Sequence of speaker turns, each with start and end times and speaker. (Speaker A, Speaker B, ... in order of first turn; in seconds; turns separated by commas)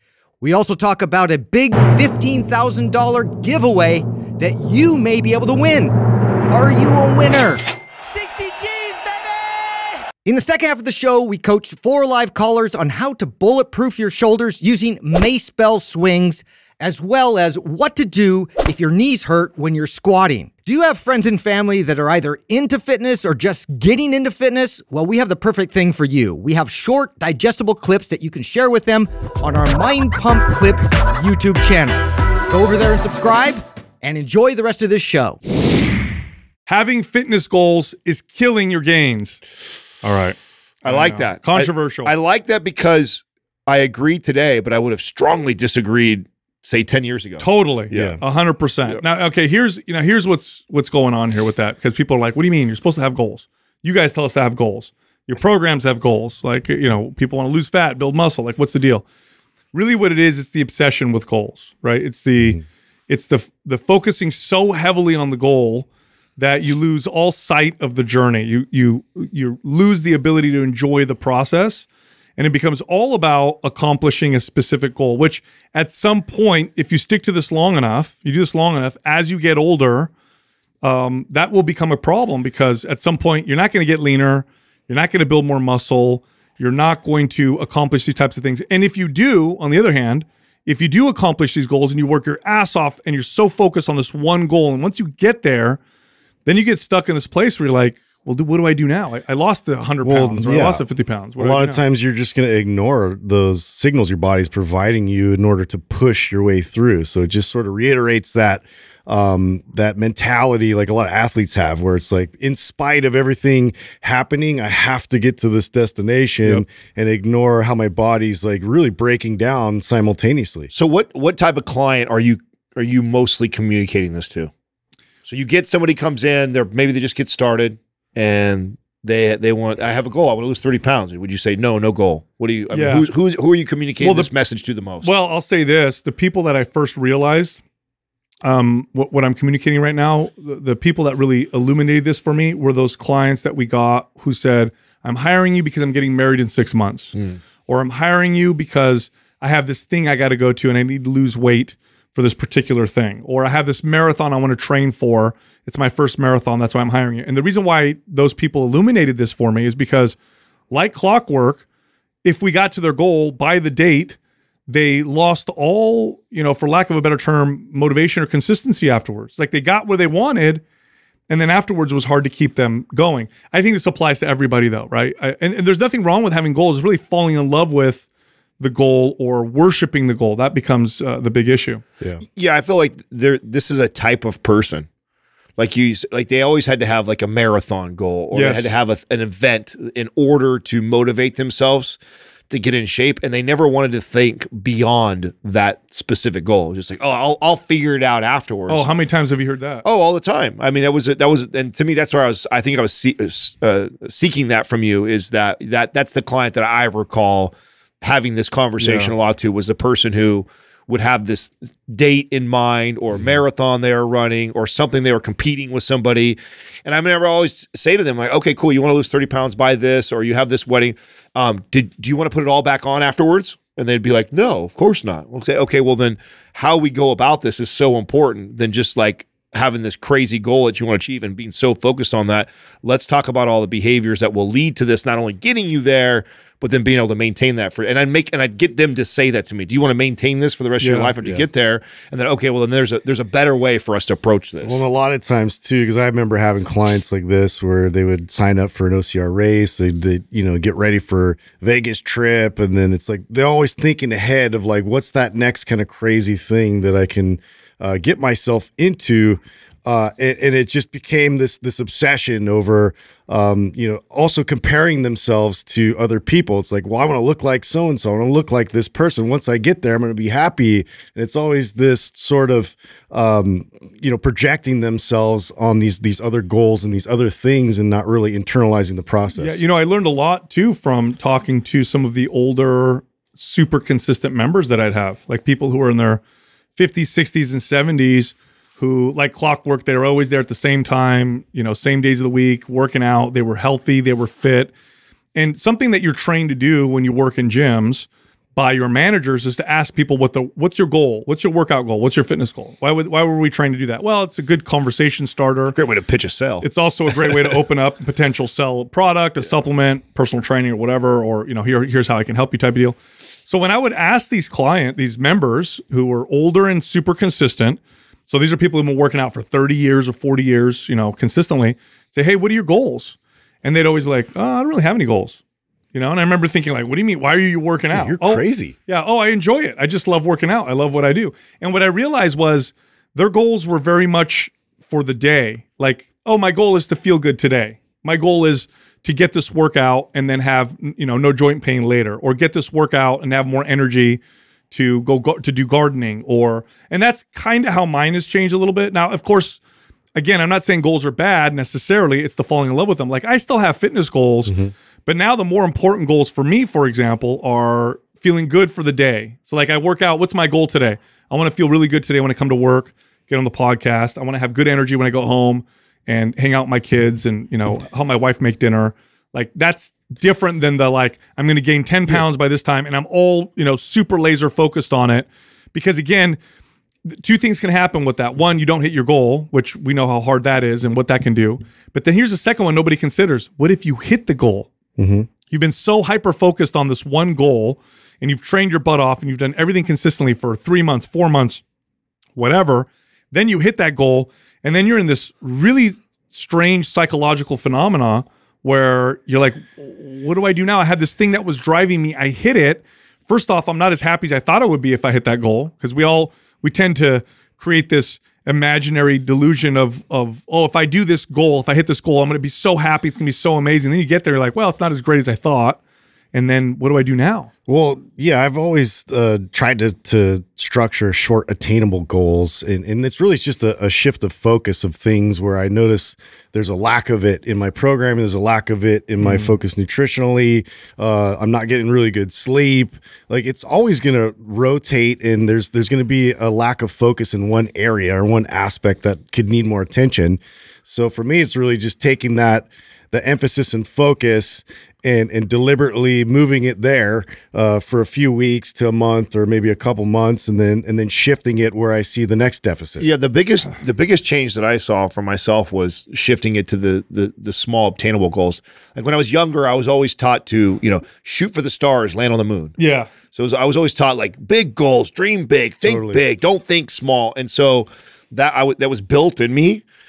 Speaker A: 0.4-6.0, Speaker A: 6.5-35.4, Speaker B: 36.7-39.4, Speaker B: 40.0-42.1, Speaker C: 40.8-48.2, Speaker B: 47.4-59.0, Speaker D: 47.9-48.2, Speaker B: 59.7-80.1, Speaker B: 80.8-95.8, Speaker B: 96.4-101.8, Speaker D: 100.0-100.8, Speaker D: 101.4-120.7, Speaker C: 120.7-124.5, Speaker C: 125.2-135.1, Speaker B: 132.7-133.1, Speaker B: 134.0-134.3, Speaker B: 135.0-137.6, Speaker B: 138.4-147.2, Speaker B: 147.7-160.2, Speaker B: 160.7-161.6, Speaker B: 162.2-170.6, Speaker B: 171.3-178.1, Speaker B: 178.6-181.8, Speaker C: 182.3-184.9, Speaker C: 185.6-192.0, Speaker B: 188.3-188.7, Speaker C: 192.5-198.9, Speaker B: 198.7-199.8, Speaker C: 199.8-244.8, Speaker B: 208.8-209.1, Speaker B: 240.8-241.1, Speaker D: 244.6-279.6, Speaker B: 279.4-286.2, Speaker B: 286.8-294.7, Speaker B: 295.3-305.8, Speaker C: 305.7-306.6, Speaker B: 306.6-325.4, Speaker B: 325.9-349.6, Speaker D: 327.9-328.7, Speaker B: 350.1-354.5, Speaker D: 354.5-354.7, Speaker B: 355.1-376.4, Speaker B: 377.1-384.7, Speaker D: 385.0-385.3, Speaker B: 385.5-391.6, Speaker B: 392.4-415.8, Speaker B: 416.3-417.5, Speaker D: 417.7-453.1, Speaker B: 429.2-429.5, Speaker C: 453.0-462.8, Speaker B: 462.8-463.1, Speaker C: 463.3-469.8, Speaker D: 465.8-466.2